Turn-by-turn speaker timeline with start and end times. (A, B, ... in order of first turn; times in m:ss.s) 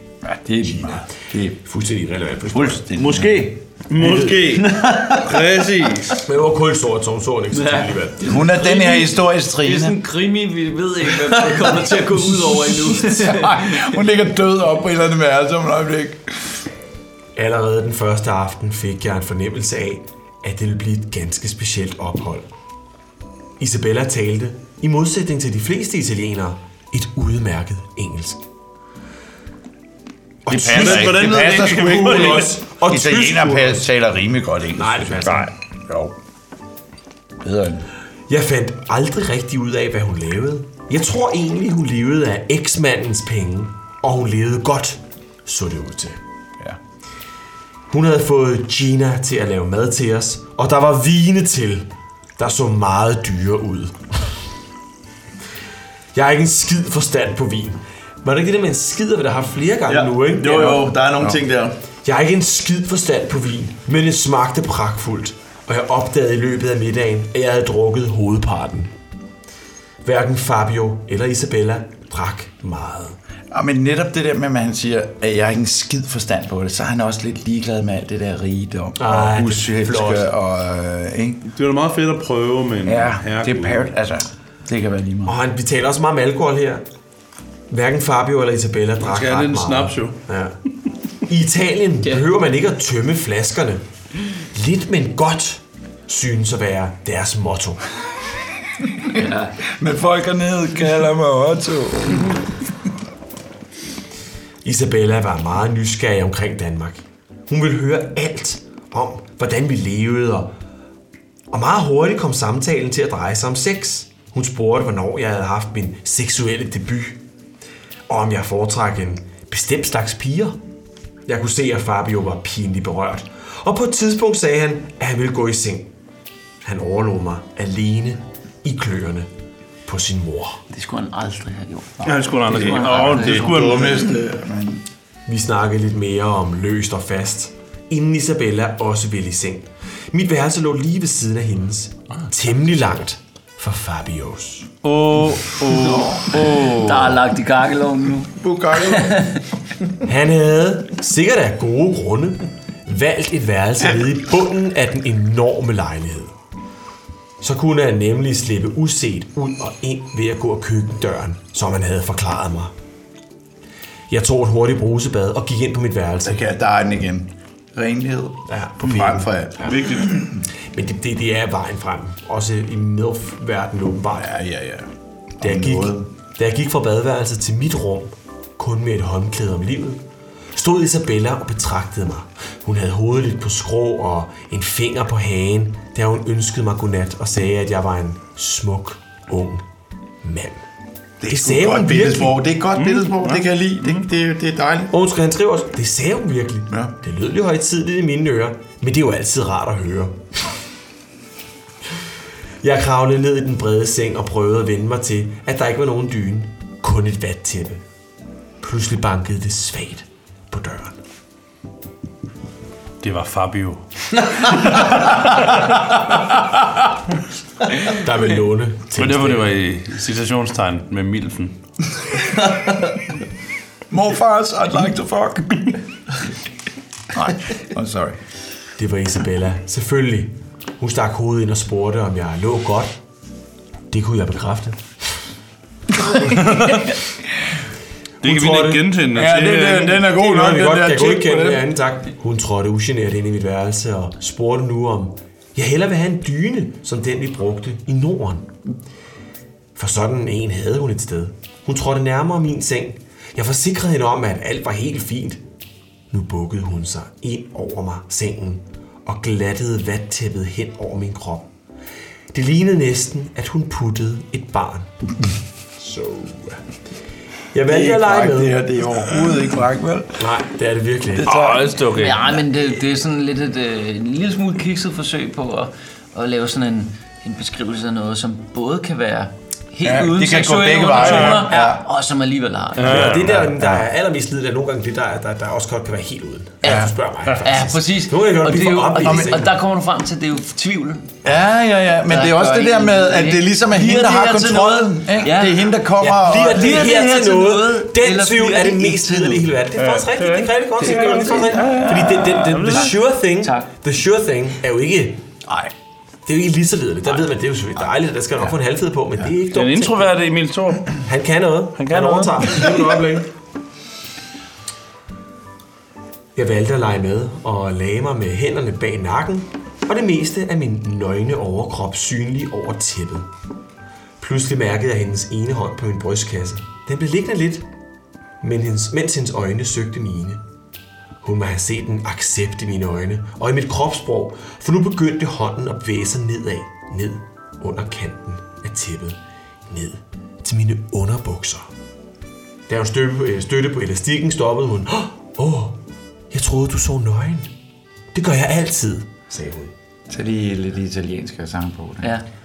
0:00.2-0:01.6 A
0:00.6-0:02.9 B
0:02.5-0:03.5 A
0:03.0-0:06.3 C
0:04.0-0:04.6 B
0:06.2-0:08.2 B
0:07.6-0:14.0 D
0:08.2-0:10.0 A
0:12.7-0:16.2 A
0:17.4-0:22.5 B
0:23.6-0:28.4 B
0:30.4-0:33.9 B
0:30.5-0:36.1 A
0:30.6-0:32.6 C
0:34.7-0:35.5 B
0:37.4-0:37.8 A
0:38.3-0:46.2 B
0:47.9-0:54.2 B
0:56.1-1:01.4 B
0:59.9-1:01.7 E
1:00.6-1:01.4 A
1:02.0-1:08.9 B
1:10.0-1:13.2 B
1:13.5-1:21.4 A
1:19.0-1:20.3 B
1:21.5-1:23.9 C
1:22.8-1:25.3 A
1:25.2-1:26.8 B
1:27.7-1:30.5 B
1:29.0-1:30.2 C
1:31.3-1:33.8 B
1:34.5-1:37.8 B
1:39.1-1:39.6 D
1:39.8-1:42.4 A
1:44.6-1:50.5 B
1:51.5-1:57.2 B
1:58.1-2:00.6 B
2:01.2-2:05.9 B
2:06.6-2:09.3 B
2:09.8-2:10.6 B
2:10.7-2:13.7 D
2:12.0-2:14.3 C
2:12.0-2:14.8 A
2:15.3-2:24.7 B
2:24.8-2:27.1 C
2:25.9-2:26.3 A
2:25.9-2:29.4 D
2:28.4-2:29.2 A
2:30.0-2:36.3 B
2:37.4-2:42.7 B
2:44.1-2:46.4 B
2:46.2-2:50.2 A
2:48.5-2:49.3 B
2:50.7-2:54.3 B
2:54.2-2:54.9 A
2:55.4-2:56.0 A
2:55.4-3:00.0 B
3:00.5-3:09.6 B
3:10.2-3:10.6 B
3:11.2-3:14.9 A
3:11.2-3:12.4 B
3:12.7-3:14.0 C
3:14.9-3:20.5 B
3:22.6-3:27.8 B
3:28.6-3:31.0 B
3:33.0-3:35.3 C
3:37.9-3:39.5 B
3:39.0-3:41.6 C
3:43.9-3:45.5 A
3:47.1-3:48.2 A
3:48.8-3:52.9 B
3:53.9-3:54.8 B
3:56.3-3:56.8 C
3:58.2-3:58.9 B
3:58.2-4:00.0 C
3:59.1-4:01.6 A
3:59.7-4:08.7 B
4:00.8-4:01.1 E
4:09.8-4:15.4 B
4:16.1-4:21.5 B
4:22.3-4:24.9 B
4:25.8-4:26.6 B
4:27.5-4:28.7 B
4:27.7-4:30.3 A
4:30.2-4:31.3 B
4:31.2-4:31.7 A
4:31.2-4:32.2 C
4:31.9-4:43.1 D
4:39.8-4:41.8 A
4:41.0-4:41.4 C
4:42.8-4:43.5 C
4:42.8-4:49.6 B
4:43.4-4:43.8 A
4:46.6-4:46.9 D
4:46.6-4:46.9 A
4:47.4-4:51.3 D
4:49.0-4:49.5 A
4:51.2-4:56.9 A
4:52.0-4:59.5 D
4:56.1-5:05.2 B
4:59.7-5:00.1 A
5:00.1-5:02.9 C
5:00.8-5:01.6 D
5:01.6-5:02.9 A
5:03.4-5:03.7 D
5:06.2-5:10.1 B
5:09.5-5:11.0 C
5:11.0-5:13.3 B
5:11.7-5:12.7 C
5:16.3-5:23.3 B
5:24.2-5:27.6 B
5:28.4-5:30.4 B
5:31.2-5:41.7 B
5:42.7-5:45.8 B
5:46.3-5:47.5 B
5:48.1-5:49.7 B
5:50.1-5:52.1 A